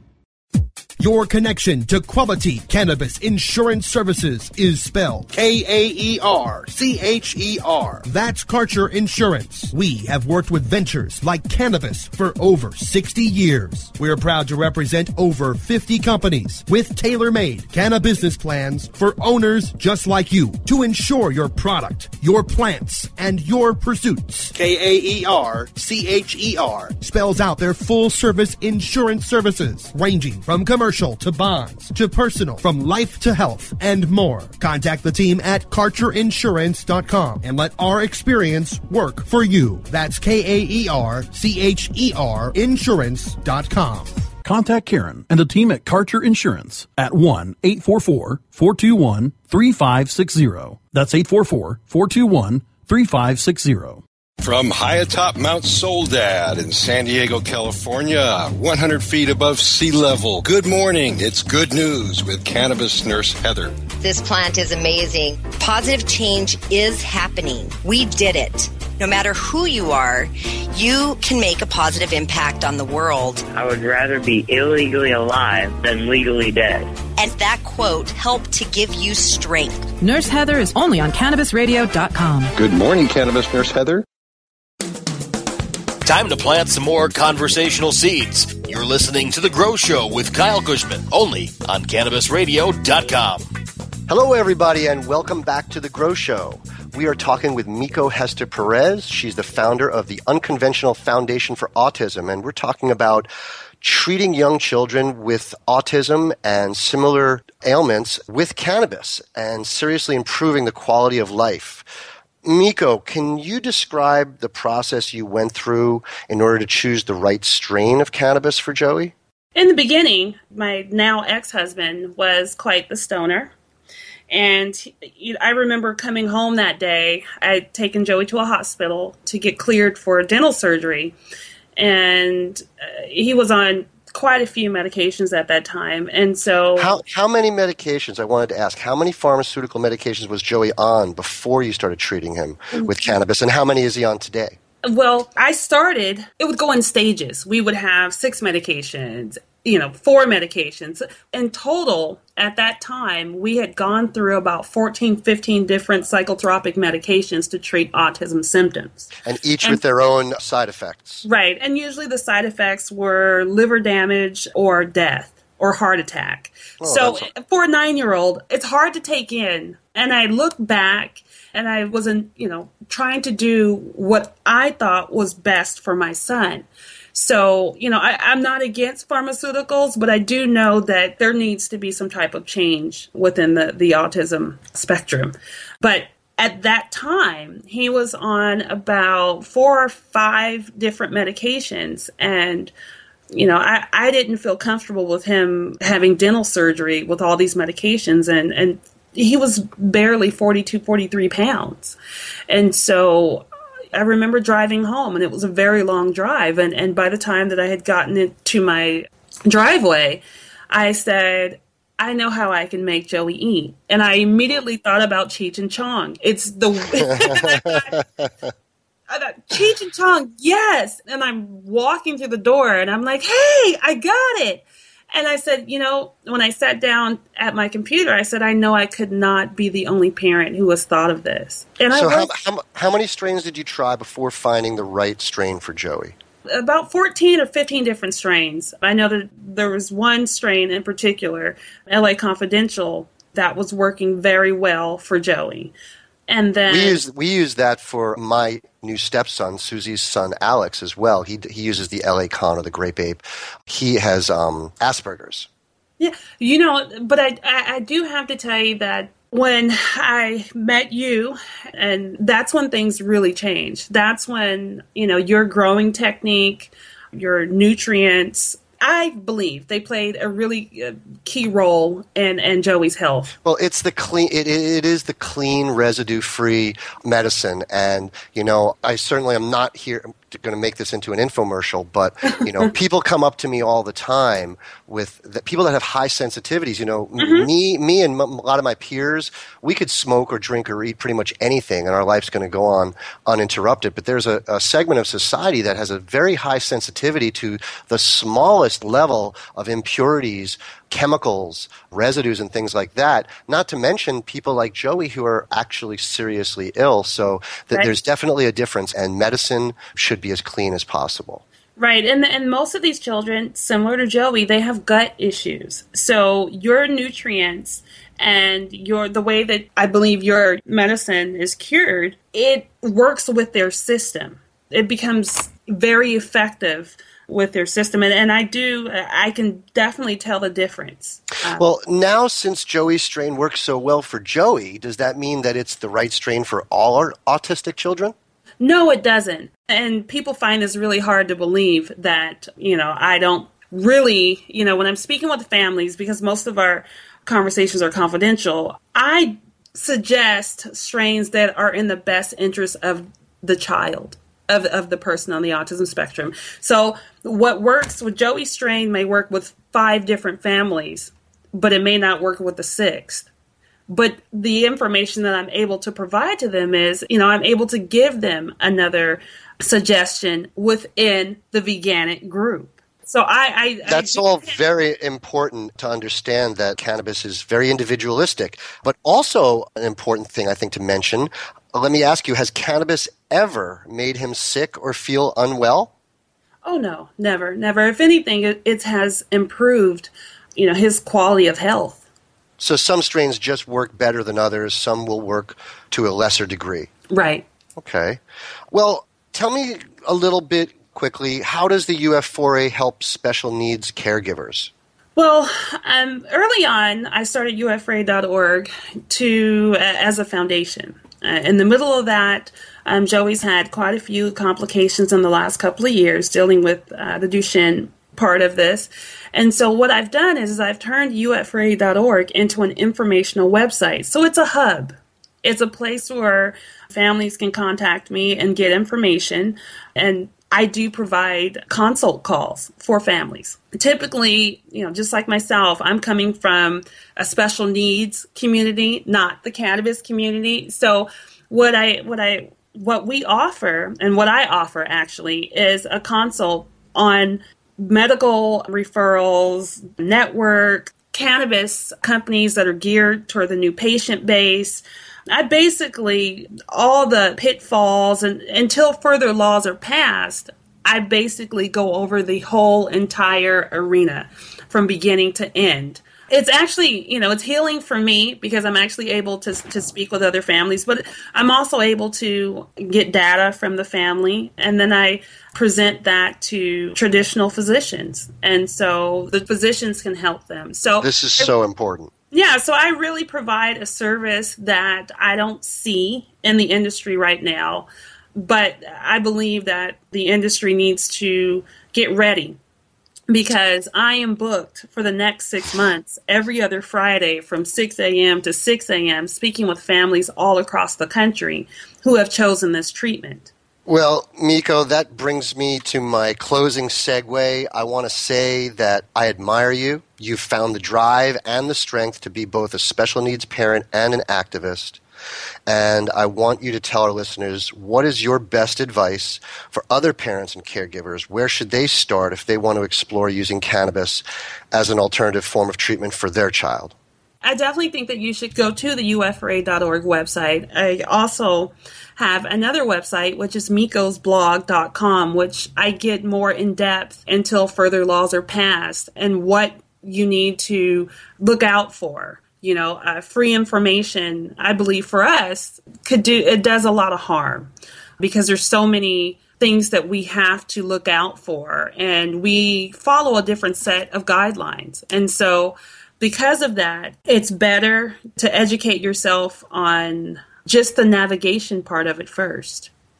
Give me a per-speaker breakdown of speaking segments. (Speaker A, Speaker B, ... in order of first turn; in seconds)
Speaker A: 1.0-44.1
Speaker B: 44.4-54.0
Speaker C: 54.4-63.7, 83.5-84.0
Speaker D: 63.9-73.4, 77.2-79.9
Speaker E: 73.5-76.9
Speaker F: 80.0-82.5
Speaker G: 86.0-93.5
Speaker H: 94.1-103.3, 103.8-111.9, 112.4-119.1, 136.8-144.6, 159.2-161.2, 166.8-167.3, 217.0-218.5, 231.9-236.1, 246.7-255.5, 273.4-311.4, 331.5-338.1, 373.9-385.9, 392.6-396.9, 397.8-398.2, 398.7-404.7, 481.0-482.1, 503.9-515.0, 515.7-526.9
Speaker I: 119.5-123.5, 124.3-131.1, 131.8-137.0, 142.7-143.1, 144.8-159.1, 161.2-192.7, 193.3-201.9, 202.5-218.0, 219.1-232.3, 236.5-245.7, 246.3-247.0, 256.0-273.3, 282.4-282.7, 287.2-287.5, 311.8-331.6, 338.6-363.3, 363.9-374.6, 386.6-392.0, 397.1-397.4, 405.1-481.5, 482.3-492.6, 493.3-503.5, 527.4-562.9